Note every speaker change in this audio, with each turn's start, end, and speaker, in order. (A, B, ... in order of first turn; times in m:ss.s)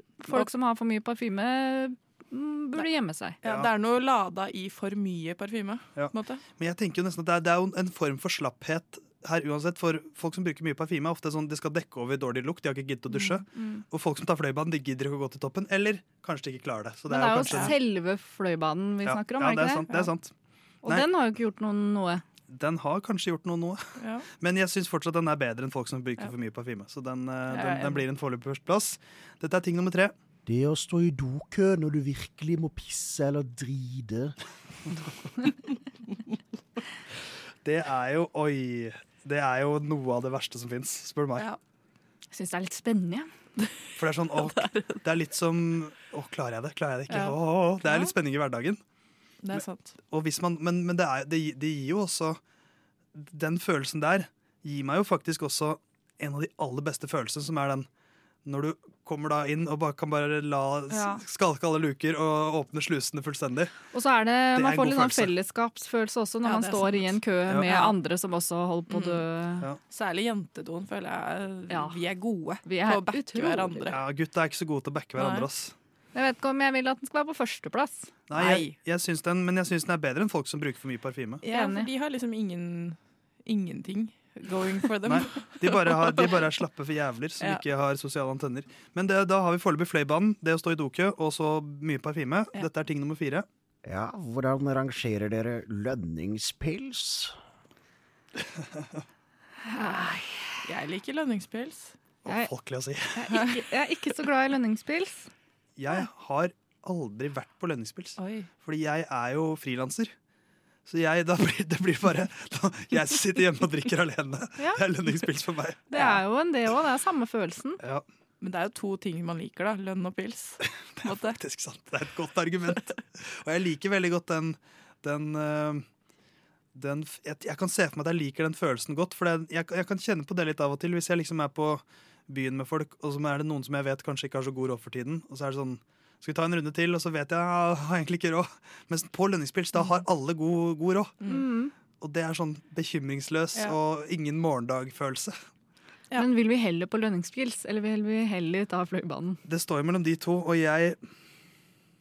0:00.2-0:03.4 A
0:03.4-0:06.4 B
0:03.4-0:03.7 C
0:06.0-0:17.8 C
0:13.1-0:13.8 A
0:17.1-0:20.1 A
0:17.5-0:17.7 B
0:19.0-0:20.3 C
0:20.8-0:22.2 A
0:22.5-0:30.1 C
0:24.0-0:24.2 B
0:27.5-0:28.0 B
0:30.4-0:34.3 D
0:37.6-0:41.5 C
0:42.3-0:43.3 A
0:44.0-0:48.8 C
0:44.3-0:45.0 B
0:47.1-0:48.1 B
0:49.4-0:49.9 B
0:49.5-0:52.4 C
0:53.2-0:57.9 C
0:58.4-1:03.7 C
1:00.9-1:01.2 A
1:03.9-1:09.7 A
1:04.5-1:05.3 C
1:06.4-1:07.9 B
1:07.5-1:07.8 C
1:08.9-1:09.2 B
1:09.9-1:14.0 B
1:11.7-1:12.0 A
1:12.6-1:13.9 A
1:13.9-1:15.7 C
1:15.2-1:15.5 B
1:16.1-1:18.1 A
1:18.3-1:21.4 C
1:18.3-1:18.8 B
1:21.4-1:26.3 B
1:21.4-1:21.9 A
1:25.0-1:33.4 C
1:33.8-1:37.4 D
1:39.6-1:40.4 A
1:40.6-1:41.9 B
1:42.3-1:43.2 C
1:43.2-1:45.3 A
1:45.8-1:50.1 C
1:48.2-1:48.5 B
1:50.8-1:56.1 C
1:55.9-1:57.8 A
1:58.4-2:01.4 B
2:01.0-2:05.8 C
2:06.8-2:21.2 C
2:21.3-2:21.7 A
2:22.0-2:25.3 C
2:26.1-2:29.4 A
2:29.4-2:31.0 C